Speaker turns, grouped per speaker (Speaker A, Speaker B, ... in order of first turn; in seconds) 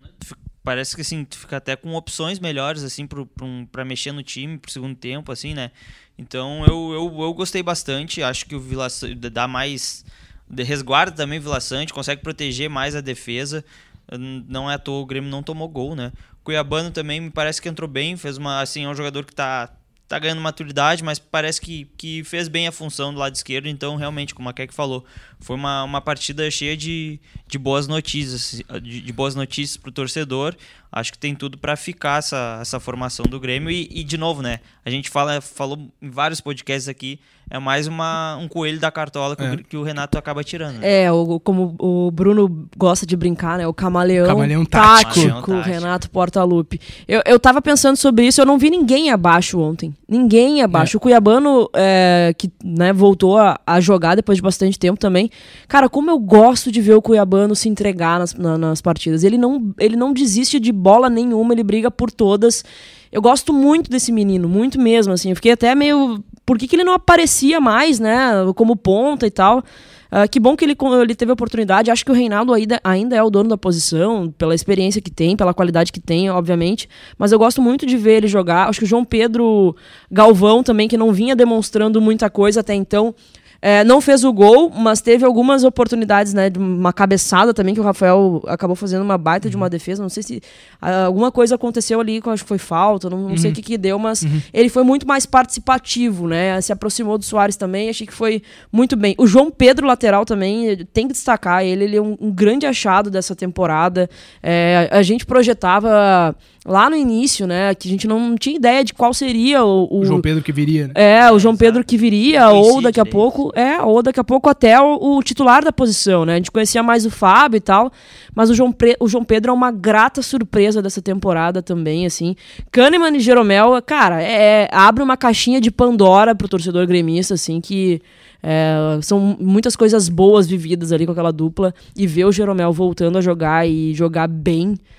Speaker A: 0.2-40.9, 44.8-45.9, 111.1-113.3
Speaker B: 40.8-110.2, 110.9-134.8
Speaker C: 44.2-45.3, 89.4-89.7, 93.3-93.6, 110.0-111.0